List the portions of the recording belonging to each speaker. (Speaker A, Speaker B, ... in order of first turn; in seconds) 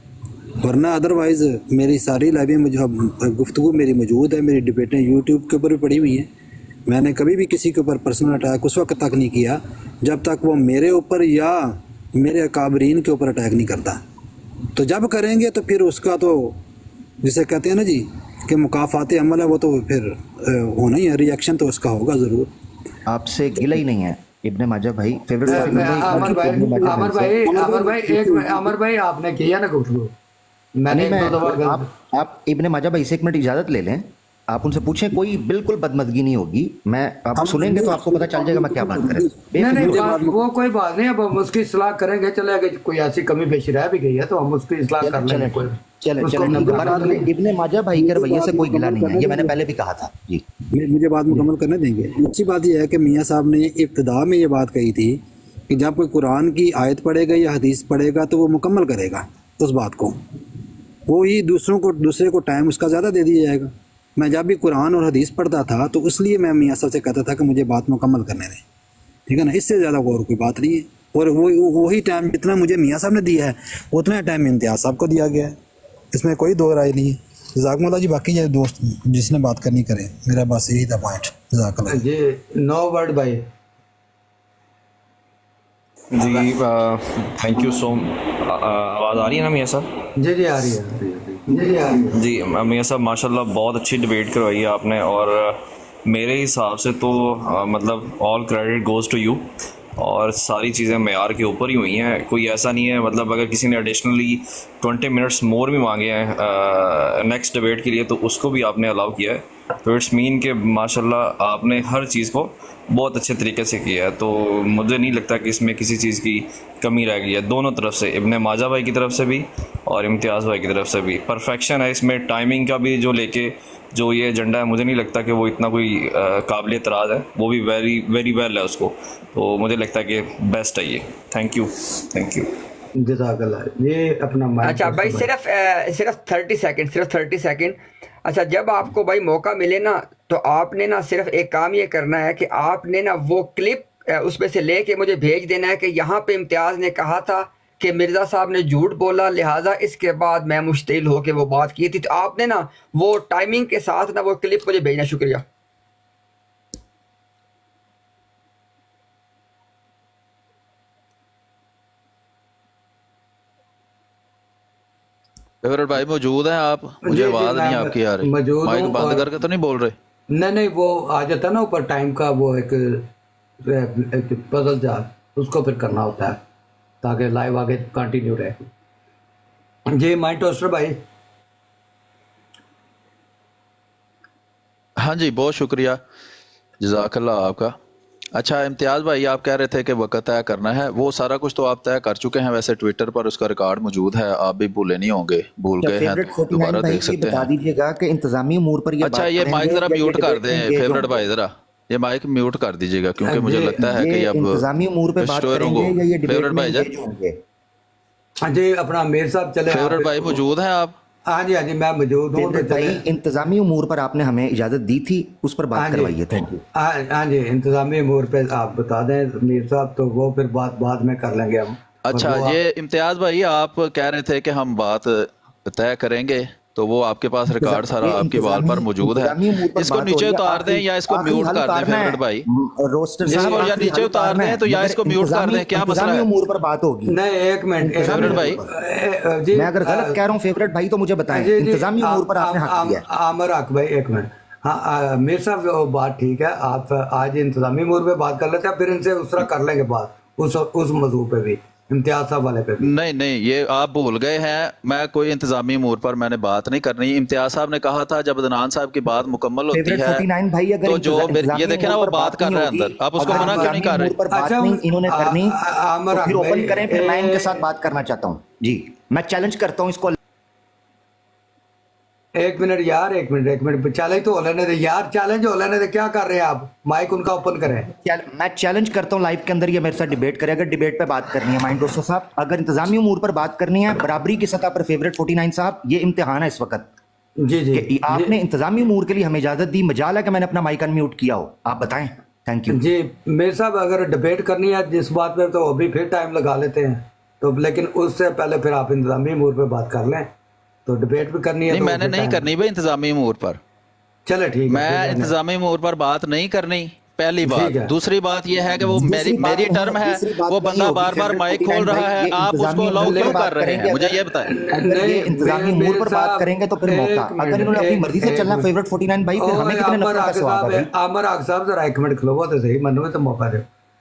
Speaker A: 0.6-6.3, 6.9-14.0, 14.7-16.6, 17.2-22.5, 25.5-28.7, 37.4-40.4, 46.6-47.2, 47.9-49.5, 50.7-60.2, 61.1-68.6, 69.3-75.6, 76.1-82.0
Speaker B: 23.1-27.4, 30.9-40.1, 45.0-50.4, 195.8-201.2, 203.8-207.4, 212.3-216.6, 227.6-237.2, 237.8-238.6, 239.5-243.0, 259.7-265.6, 266.1-270.1, 278.0-286.9, 287.7-292.8, 308.8-320.9
Speaker C: 25.5-30.1, 30.8-31.9, 39.6-47.3, 81.9-83.5, 90.2-92.2, 133.0-135.3, 167.0-169.3, 170.3-173.1, 173.6-176.4, 177.0-178.7, 179.9-181.0, 203.2-203.8, 208.4-210.4, 211.3-213.0, 215.8-222.6, 233.2-233.9, 237.1-240.2, 241.3-252.9, 263.2-267.6, 272.4-277.9, 287.4-288.3, 292.7-300.3, 300.9-302.5, 304.2-305.3, 307.4-307.9, 312.9-313.4, 314.4-318.7, 319.4-323.7
Speaker D: 86.1-89.9, 92.1-132.5
Speaker E: 134.6-155.4
Speaker F: 165.6-169.9, 185.0-186.0, 186.8-187.8, 188.3-197.5, 199.0-204.6, 205.2-206.9, 209.7-210.9, 222.1-232.4, 233.2-236.3, 238.1-238.6, 252.8-260.2, 260.8-264.2, 301.7-303.6, 304.7-314.5